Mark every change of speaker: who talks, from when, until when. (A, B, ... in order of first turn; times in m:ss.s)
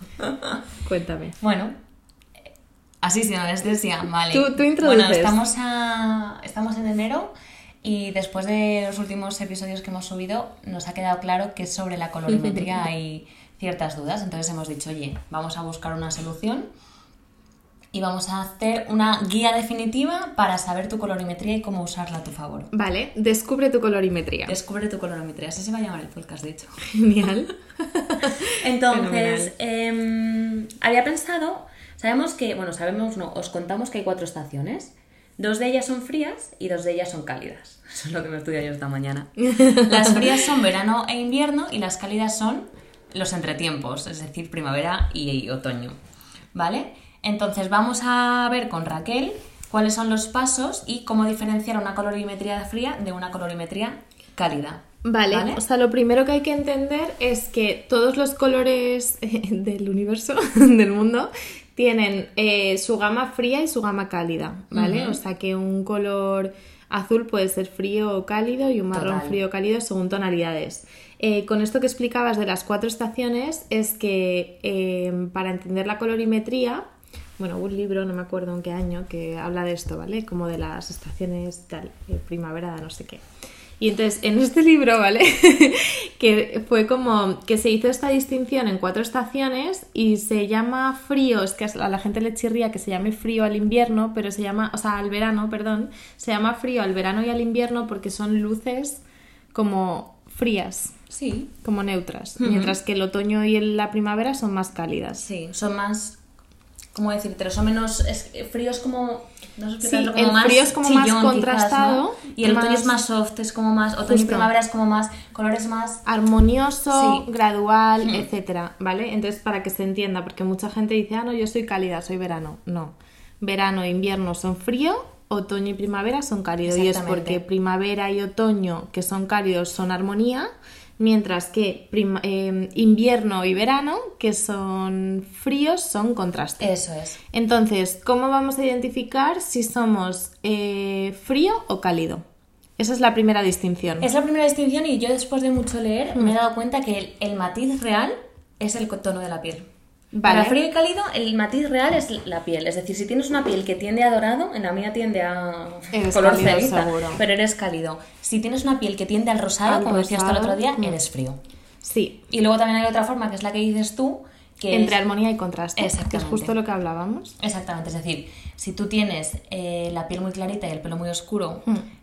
0:00.2-0:00.6 A
0:00.8-0:01.4 B
0:01.4-0:01.8 A
0:03.0-0:16.7 A
0:04.3-0:05.4 B
0:17.9-0:22.7 A
0:22.7-0:24.6 B
0:24.5-0:26.8 A
0:26.9-0:29.5 B
0:28.6-0:46.0 A
0:46.5-0:55.6 A
0:55.0-1:16.8 B
1:04.7-1:05.2 A
1:08.9-1:09.4 A
1:17.4-1:23.2 B
1:23.8-1:39.0 B
1:39.5-1:41.0 B
1:41.1-1:41.5 A
1:41.6-1:45.3 B
1:42.4-1:42.8 A
1:45.2-1:46.2 A
1:46.9-1:56.0 A
1:49.8-1:53.0 B
1:54.1-1:54.5 B
1:56.0-2:10.5 B
1:56.9-1:57.2 A
1:58.0-1:58.3 A
2:06.6-2:07.4 A
2:11.0-2:16.8 B
2:16.6-2:17.2 A
2:17.3-2:22.2 B
2:22.8-2:24.1 B
2:24.0-2:29.7 A
2:30.1-2:30.6 B
2:30.2-2:41.4 A
2:35.9-2:37.2 B
2:39.6-2:41.0 B
2:41.8-2:42.2 B
2:42.3-2:45.0 A
2:44.7-2:47.4 B
2:45.8-2:46.5 A
2:47.4-2:51.7 A